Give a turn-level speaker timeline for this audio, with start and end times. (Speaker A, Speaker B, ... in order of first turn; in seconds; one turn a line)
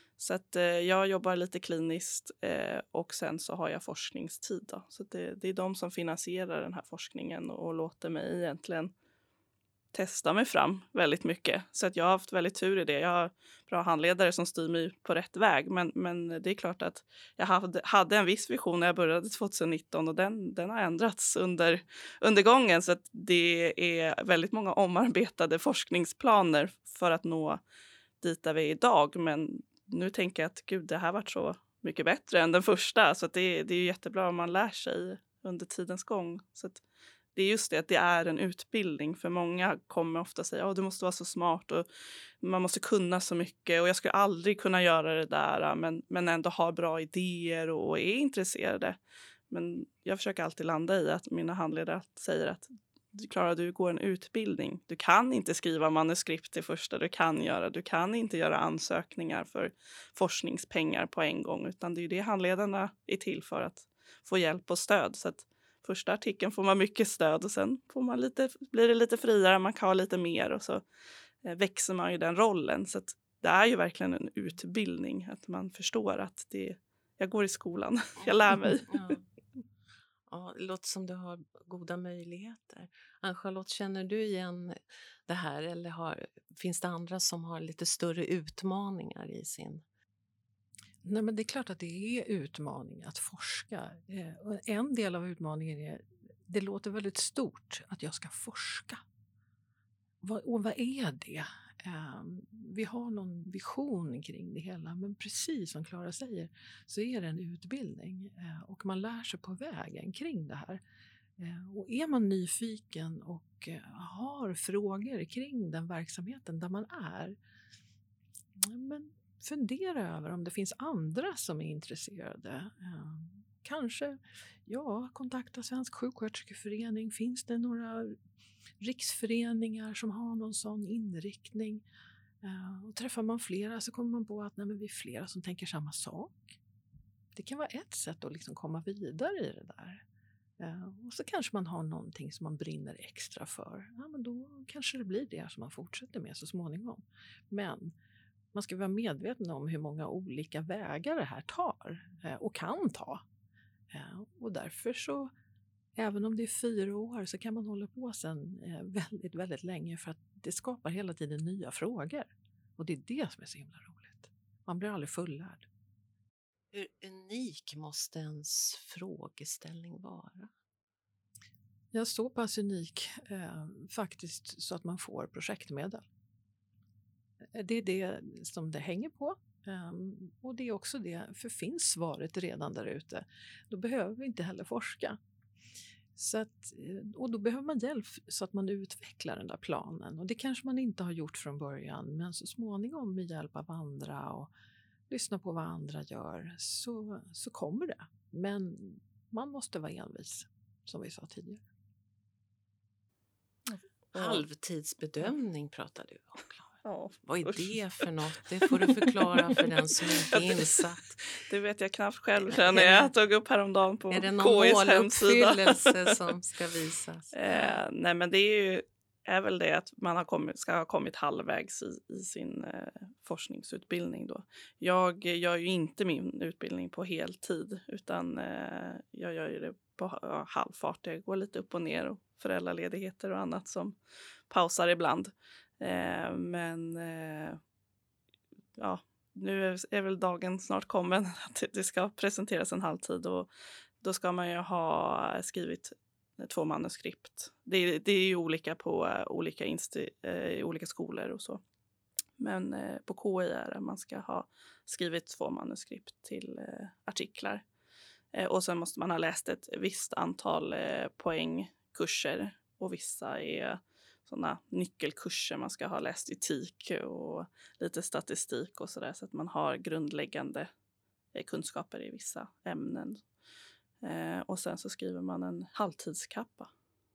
Speaker A: 0.2-8.9
Speaker A: 9.9-27.6
Speaker A: 28.2-36.8
Speaker A: 37.3-41.9
Speaker A: 42.4-49.0
Speaker A: 49.5-70.8
Speaker A: 71.4-79.0
Speaker B: 78.9-79.2
Speaker B: 80.3-89.8
Speaker C: 91.0-99.0
Speaker C: 100.2-110.8
Speaker C: 111.4-117.3
Speaker C: 118.6-128.2
Speaker C: 128.8-131.8
Speaker C: 132.4-136.5
Speaker C: 137.3-140.0
Speaker C: 140.6-147.9
Speaker C: 148.5-153.2
Speaker C: 153.9-155.3
Speaker C: 155.9-165.7
Speaker B: 166.7-170.5
Speaker C: 171.9-176.1
Speaker C: 177.5-185.2
Speaker C: 186.2-194.5
Speaker C: 195.1-201.6
Speaker A: 203.7-204.4
Speaker B: 204.1-206.7
Speaker A: 206.8-208.1
Speaker B: 207.2-211.2
Speaker A: 208.7-216.2
Speaker B: 212.4-213.1
Speaker B: 214.1-217.3
Speaker A: 217.3-234.0
Speaker A: 234.5-237.6
Speaker A: 238.8-243.5
Speaker A: 244.0-251.6
Speaker A: 252.4-257.6
Speaker A: 258.3-270.7
Speaker A: 271.3-273.2
Speaker A: 274.0-276.7